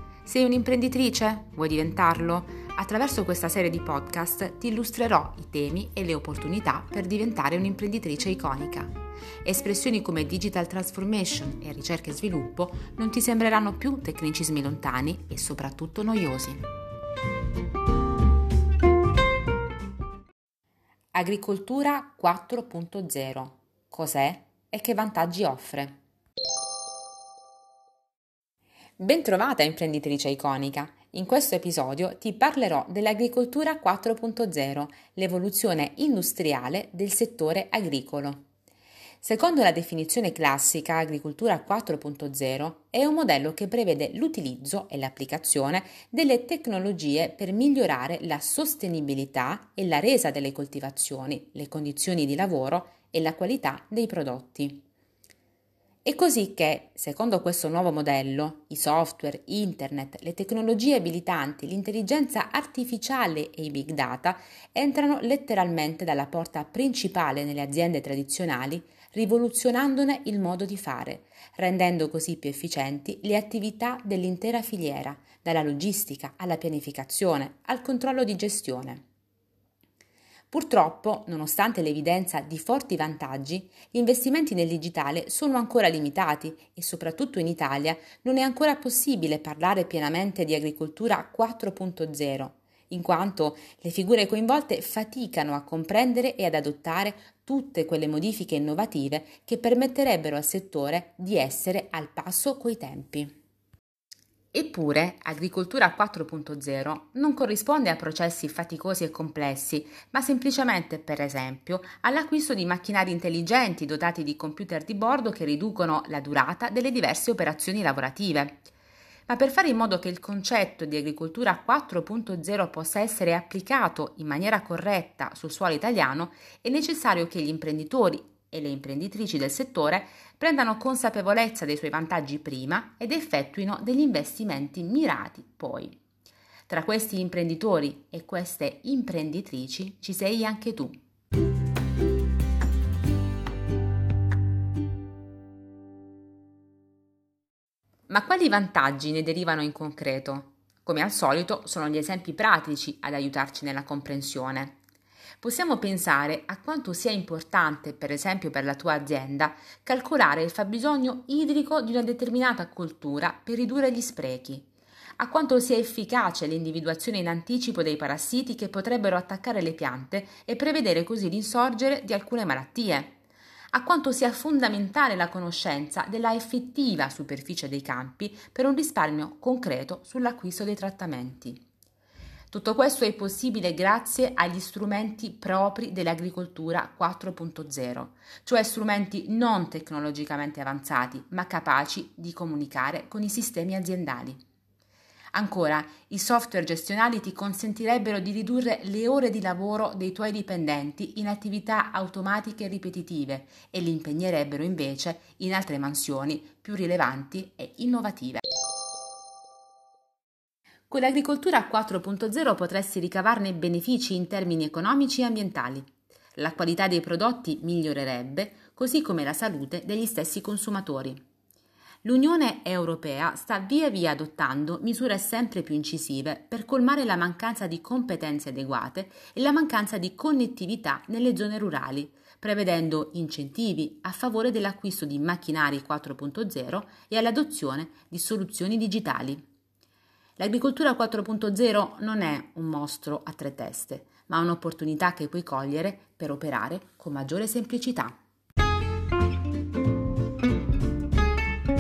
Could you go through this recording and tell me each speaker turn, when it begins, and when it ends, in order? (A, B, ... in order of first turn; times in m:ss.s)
0:00.2-0:16.7 A
0:21.1-0:26.0 A
0:29.0-0:38.4 A
0:39.2-0:54.8 A
0:56.0-1:19.0 A
1:20.5-1:43.3 A
1:44.5-1:58.6 A
1:59.3-2:16.0 A
2:16.7-2:21.0 A
2:28.1-2:34.8 A
2:35.4-2:53.2 A
2:53.7-3:01.6 A
3:02.5-3:14.4 A
3:15.3-3:28.4 A
3:30.9-3:41.2 A
3:42.0-3:59.4 A
4:00.4-4:08.2 A